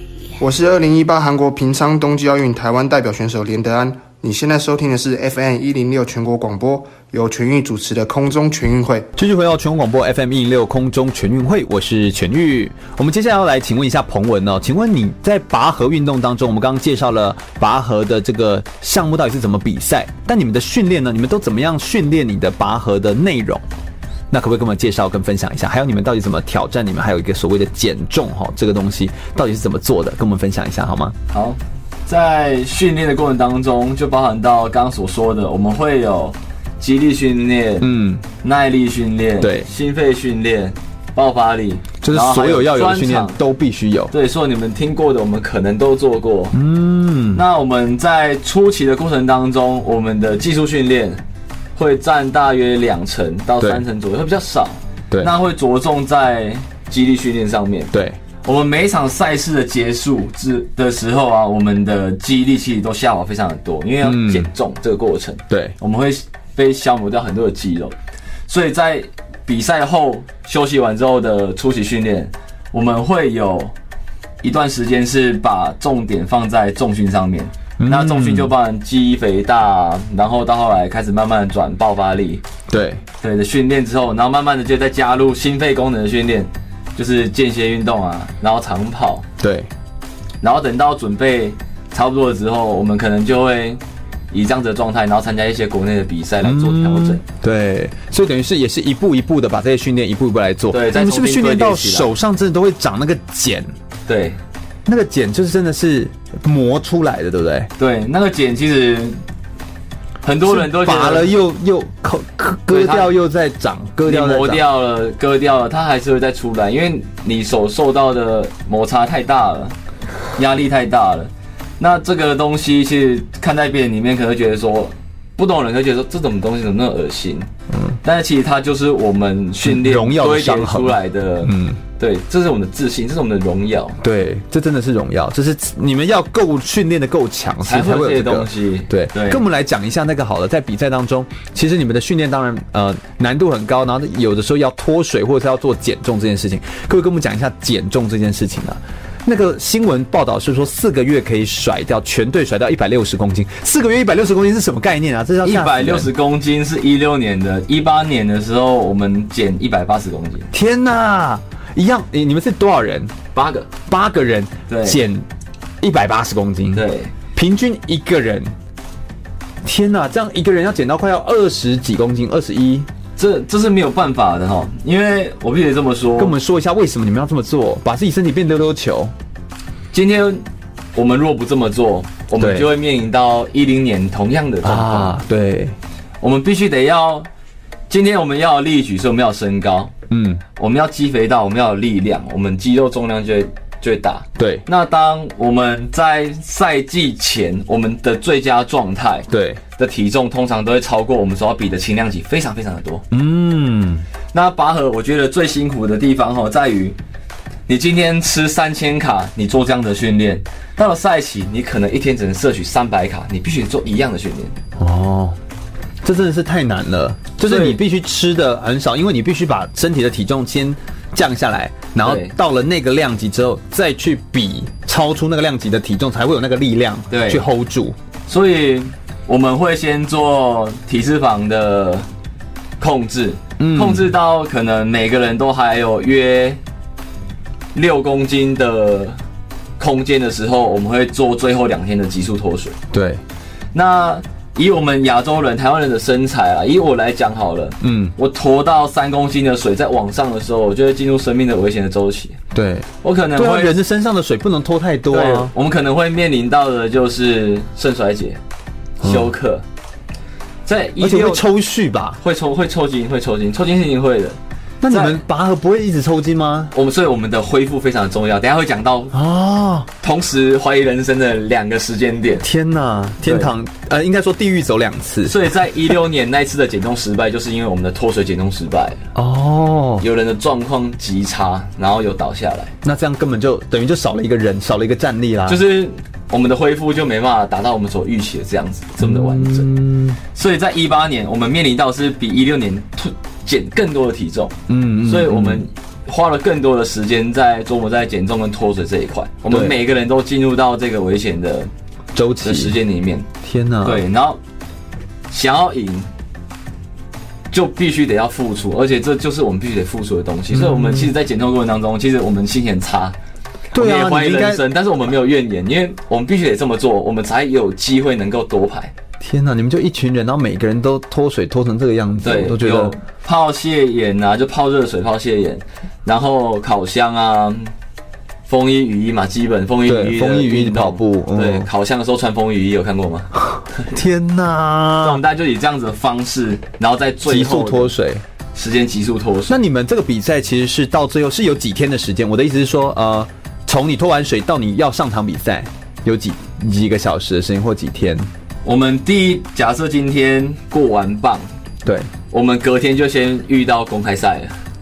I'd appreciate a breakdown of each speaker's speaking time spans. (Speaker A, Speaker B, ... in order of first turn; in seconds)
Speaker A: 0.4-9.1
Speaker B: 9.1-23.6, 24.3-31.1, 37.8-38.2, 39.4-39.7, 42.0-44.1, 46.5-47.4, 57.9-58.2, 64.0-64.5, 65.5-65.8, 77.8-78.5, 82.7-83.0, 89.4-89.7, 96.4-103.7, 104.8-107.7, 110.5-114.6, 127.7-128.0, 129.6-131.8, 134.0-156.1, 160.5-163.1, 163.9-165.2, 165.8-166.8, 167.3-168.5, 169.6-172.9, 176.2-179.1, 182.4-182.7, 184.6-185.8, 190.1-190.4, 194.4-194.6, 199.3-199.6, 203.1-204.0, 214.8-215.4, 216.0-227.9, 233.6-234.1, 242.9-243.2, 247.8-248.1, 252.5-255.5, 259.0-259.3, 261.0-262.2, 264.8-266.7, 269.1-269.9, 272.4-275.4, 279.1-280.0, 282.8-285.6, 289.0-290.2, 294.7-295.6, 299.5-299.8, 302.1-302.8, 303.4-304.0, 310.5-311.1, 313.7-314.6, 319.2-322.9, 329.8-331.7, 333.9-335.2, 337.2-338.2, 339.5-348.3, 351.8-352.1
Speaker C: 31.3-37.9, 38.4-43.4, 44.1-46.6, 47.3-51.2, 51.8-57.9, 58.4-67.9, 68.5-73.7, 74.4-82.4, 83.2-89.2, 90.4-93.8, 94.3-97.2, 100.7-102.1, 104.1-104.4, 107.8-109.2, 110.2-111.3, 112.7-113.1, 114.0-119.7, 120.3-127.5, 128.0-134.0, 137.6-139.4, 155.4-160.5, 163.3-163.7, 164.7-165.0, 166.7-167.1, 173.2-176.3, 179.9-180.4, 180.9-185.2, 186.2-187.3, 187.9-189.9, 190.6-203.0, 204.3-206.9, 207.7-214.6, 217.4-217.8, 222.0-222.3, 227.1-227.4, 228.3-232.1, 232.8-236.6, 237.7-239.2, 239.8-242.8, 243.7-252.4, 253.0-253.8, 255.1-258.4, 259.0-259.6, 260.6-261.4, 262.2-264.4, 264.9-265.2, 266.7-269.1, 270.0-272.4, 273.2-273.5, 275.2-279.0, 280.0-282.7, 285.5-289.7, 290.3-301.7, 302.4-303.3, 303.8-304.4, 305.3-306.1, 307.5-313.1, 313.7-318.9, 322.2-327.7, 328.4-333.9, 335.0-337.9, 338.5-339.6, 348.6-351.4, 352.3-354.6